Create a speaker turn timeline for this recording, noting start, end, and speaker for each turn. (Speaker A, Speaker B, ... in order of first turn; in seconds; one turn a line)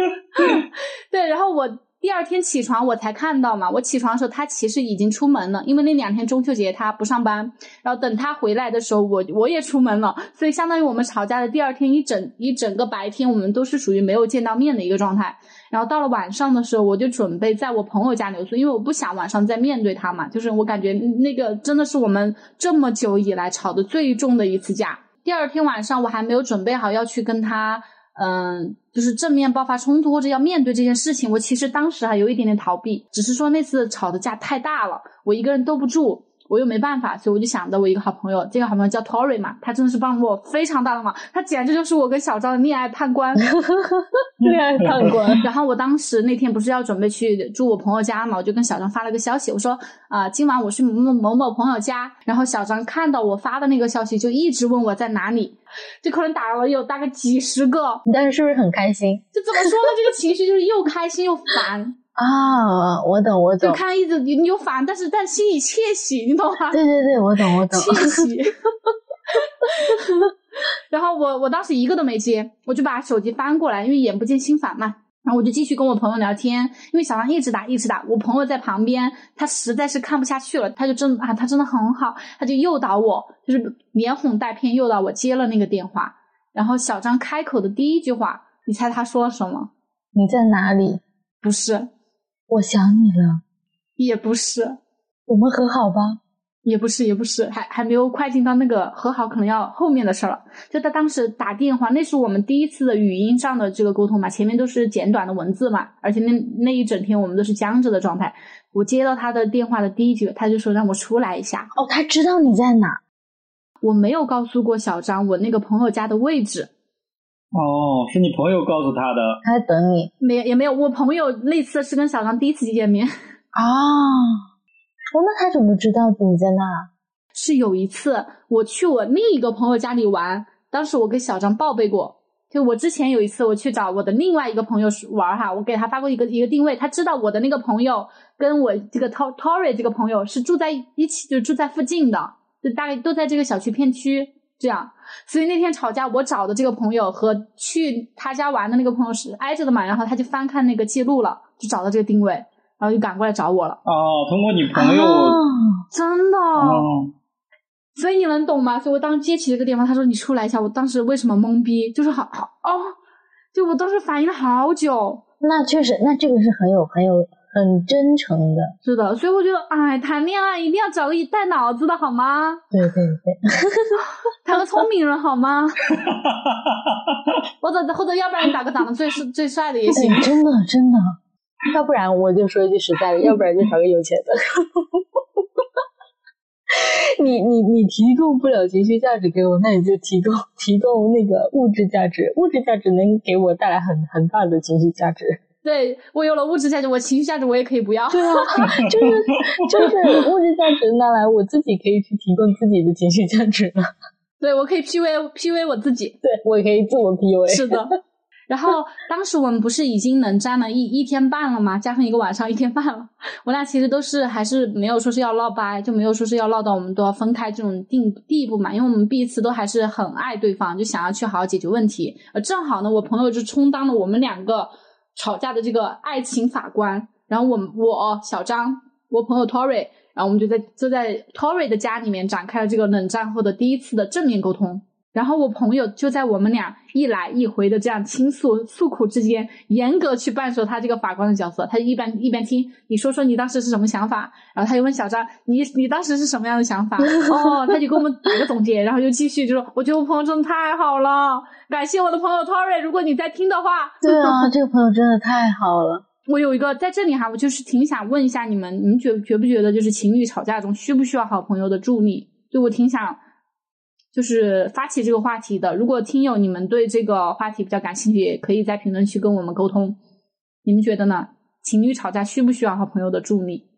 Speaker A: 0.4-43.5
Speaker B: 43.5-45.5
Speaker C: 44.4-45.1
Speaker A: 45.4-58.0
Speaker B: 58.1-59.9
Speaker A: 59.3-62.0
Speaker B: 62.2-63.8
Speaker A: 63.6-66.8
Speaker B: 66.7-68.3
Speaker A: 67.5-68.6
Speaker A: 69.3-70.3
Speaker A: 70.9-89.7
Speaker B: 90.2-91.0
Speaker A: 91.4-91.9
Speaker B: 92.5-93.4
Speaker A: 94.0-94.8
Speaker B: 95.3-96.2
Speaker A: 96.7-111.7
Speaker B: 111.7-113.0
Speaker A: 113.8-116.7
Speaker C: 117.5-119.4
Speaker B: 119.4-120.1
Speaker A: 120.2-123.1
Speaker B: 123.5-124.4
Speaker B: 125.1-126.9
Speaker A: 127.3-153.8
Speaker C: 153.8-155.4
Speaker B: 154.8-155.8
Speaker A: 155.9-156.9
Speaker C: 156.6-157.1
Speaker A: 158.0-162.9
Speaker A: 163.5-165.2
Speaker B: 165.4-168.7
Speaker A: 168.8-172.6
Speaker B: 172.7-174.0
Speaker A: 174.4-175.8
Speaker C: 176.0-177.2
Speaker A: 177.6-180.3
Speaker B: 179.9-181.2
Speaker B: 181.7-185.2
Speaker B: 186.7-195.4
Speaker A: 195.6-198.7
Speaker B: 198.1-203.9
Speaker C: 198.7-199.9
Speaker A: 204.4-206.2
Speaker B: 206.2-207.8
Speaker A: 207.5-208.0
Speaker A: 208.5-254.5
Speaker B: 247.2-247.5
Speaker B: 254.0-256.1
Speaker A: 256.3-263.2
Speaker A: 264.1-270.0
Speaker A: 270.6-273.6